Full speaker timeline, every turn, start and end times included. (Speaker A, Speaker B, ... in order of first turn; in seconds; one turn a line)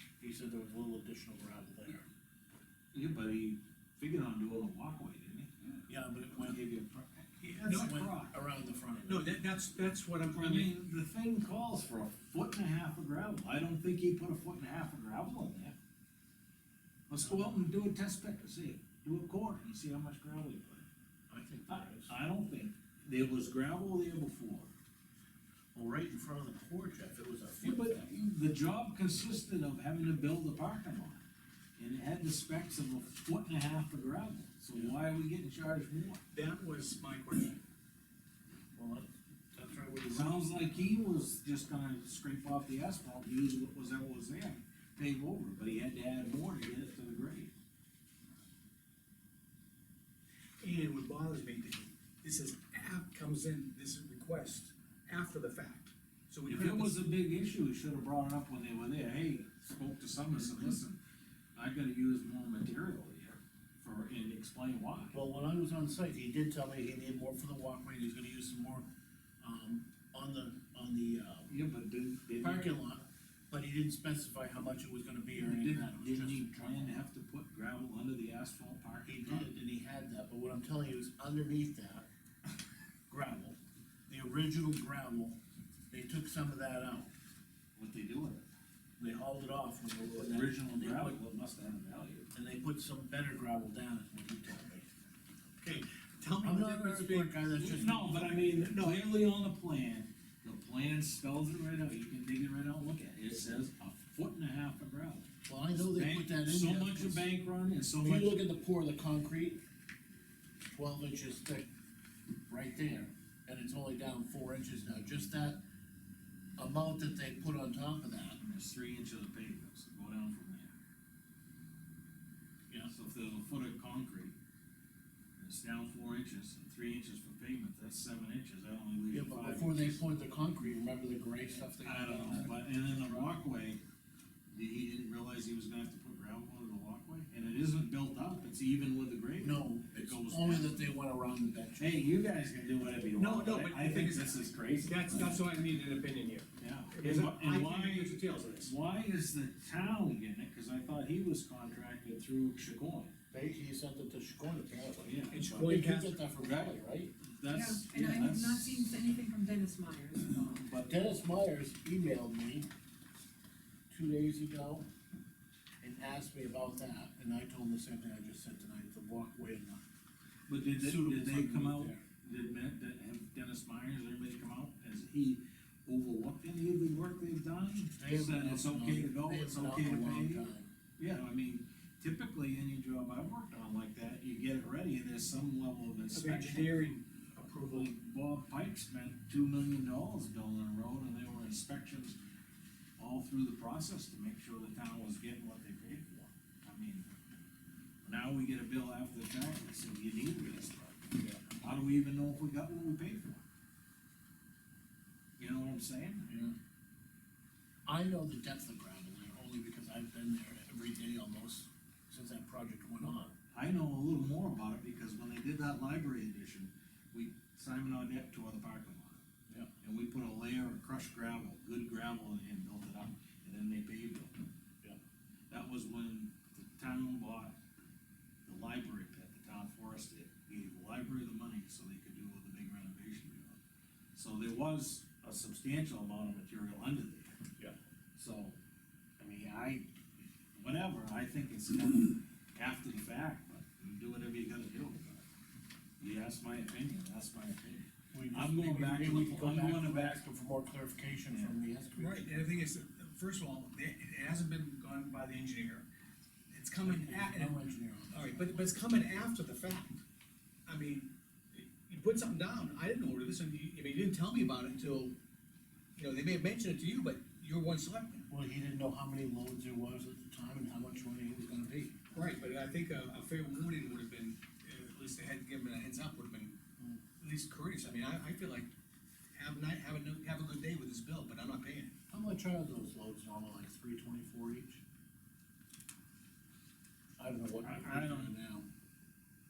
Speaker A: 0.2-2.0
Speaker B: 2.9-5.5
Speaker A: 5.9-6.6
Speaker B: 6.3-8.3
Speaker C: 7.4-8.1
Speaker A: 7.6-9.3
Speaker C: 9.1-10.7
Speaker B: 10.3-15.7
Speaker B: 17.1-20.9
Speaker A: 17.2-17.7
Speaker A: 21.3-22.1
Speaker B: 21.7-24.7
Speaker A: 25.7-28.1
Speaker B: 27.6-31.2
Speaker B: 31.8-36.2
Speaker C: 36.3-37.6
Speaker A: 38.7-40.5
Speaker B: 40.1-47.5
Speaker C: 50.6-57.0
Speaker B: 56.5-61.0
Speaker B: 61.5-65.2
Speaker A: 65.1-68.8
Speaker A: 69.4-71.5
Speaker B: 71.5-72.8
Speaker A: 72.4-77.0
Speaker B: 75.4-79.5
Speaker A: 79.0-82.1
Speaker A: 83.1-83.6
Speaker A: 84.1-85.4
Speaker A: 85.9-87.1
Speaker B: 87.8-88.5
Speaker A: 89.0-91.2
Speaker B: 90.1-92.3
Speaker A: 92.3-94.9
Speaker C: 95.6-97.5
Speaker A: 96.4-98.7
Speaker B: 97.6-108.4
Speaker C: 98.4-99.0
Speaker A: 105.4-107.3
Speaker A: 108.0-109.6
Speaker A: 110.6-111.7
Speaker A: 112.5-115.6
Speaker A: 116.6-118.4
Speaker B: 118.4-120.7
Speaker B: 122.9-124.3
Speaker B: 125.4-130.1
Speaker A: 129.1-133.4
Speaker B: 131.6-133.8
Speaker B: 134.5-140.9
Speaker A: 139.4-142.0
Speaker B: 141.8-145.4
Speaker C: 143.2-148.7
Speaker B: 146.6-153.1
Speaker A: 153.3-157.1
Speaker B: 155.0-155.7
Speaker C: 155.3-156.2
Speaker B: 156.4-159.1
Speaker D: 157.5-160.6
Speaker B: 160.5-160.9
Speaker A: 160.7-162.7
Speaker A: 163.9-164.8
Speaker A: 165.8-169.8
Speaker B: 170.5-180.5
Speaker A: 170.8-172.0
Speaker A: 177.9-180.7
Speaker B: 181.0-186.8
Speaker C: 186.1-187.9
Speaker B: 187.7-192.2
Speaker B: 193.0-197.1
Speaker B: 198.0-203.4
Speaker B: 205.4-206.5
Speaker A: 206.3-206.5
Speaker A: 207.8-213.3
Speaker B: 213.5-219.2
Speaker B: 219.8-224.4
Speaker B: 225.5-227.6
Speaker B: 228.4-233.6
Speaker B: 234.1-237.4
Speaker B: 238.1-238.6
Speaker B: 239.2-239.9
Speaker B: 240.6-245.2
Speaker B: 246.0-250.2
Speaker A: 248.1-252.7
Speaker B: 251.3-251.6
Speaker C: 251.9-255.8
Speaker C: 256.5-257.6
Speaker A: 256.8-258.8
Speaker C: 258.1-260.0
Speaker C: 260.7-265.1
Speaker C: 265.9-268.3
Speaker A: 268.3-272.0
Speaker C: 272.1-276.5
Speaker C: 277.2-278.7
Speaker C: 279.3-281.9
Speaker A: 282.1-284.8
Speaker A: 287.2-288.7
Speaker B: 287.6-288.3